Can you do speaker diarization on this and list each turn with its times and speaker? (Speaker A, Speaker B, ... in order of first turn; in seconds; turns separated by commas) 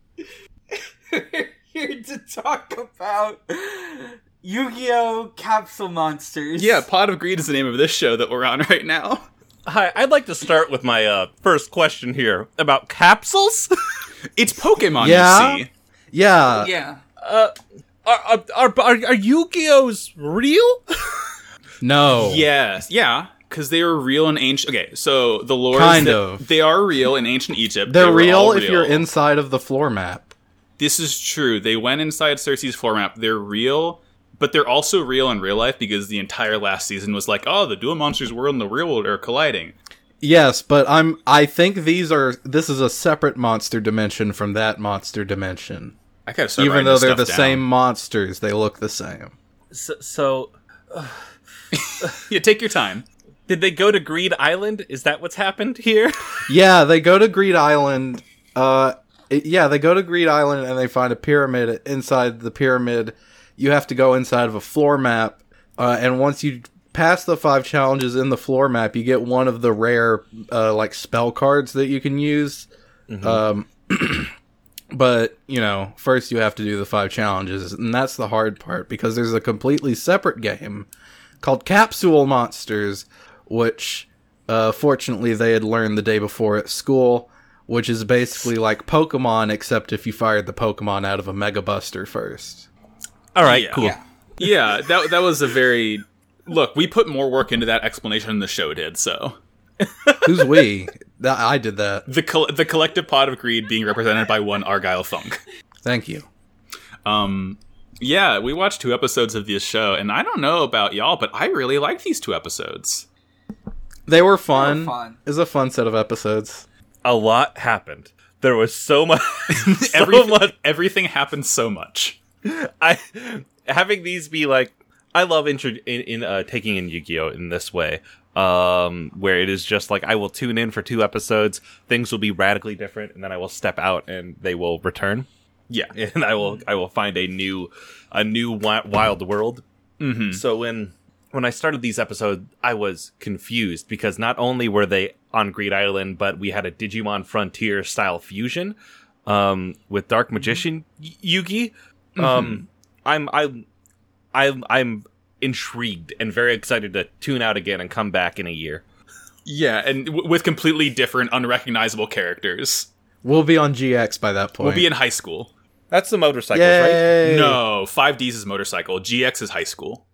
Speaker A: 0.7-6.8, Speaker B: 6.6-9.2, Speaker C: 9.7-13.7, Speaker B: 14.3-15.7, Speaker D: 15.0-16.7, Speaker A: 16.5-17.0, Speaker C: 17.2-17.5, Speaker C: 18.0-21.3, Speaker D: 21.8-22.4, Speaker B: 22.1-29.0, Speaker D: 25.7-26.4, Speaker D: 27.9-30.3, Speaker B: 30.8-39.7, Speaker D: 40.2-45.9, Speaker B: 46.3-47.6, Speaker D: 46.6-49.3, Speaker C: 49.7-51.2, Speaker B: 51.7-53.0, Speaker C: 53.5-56.5, Speaker D: 56.5-72.7, Speaker C: 73.1-73.4, Speaker D: 73.2-74.3, Speaker D: 74.9-80.9, Speaker D: 81.4-92.7, Speaker C: 93.3-94.0, Speaker B: 93.4-99.4, Speaker D: 100.2-102.0, Speaker B: 102.1-105.4, Speaker D: 105.8-106.2, Speaker B: 107.0-113.0, Speaker D: 114.1-116.7, Speaker A: 114.5-115.2, Speaker C: 117.0-120.5, Speaker B: 119.5-122.2, Speaker C: 122.4-135.3, Speaker C: 135.9-139.6, Speaker B: 140.0-140.4, Speaker C: 140.3-153.6, Speaker B: 152.2-152.6, Speaker C: 154.3-158.8, Speaker B: 159.4-162.9, Speaker D: 163.2-164.9, Speaker B: 164.6-165.5, Speaker C: 165.9-167.1, Speaker D: 166.5-167.6, Speaker B: 167.2-170.0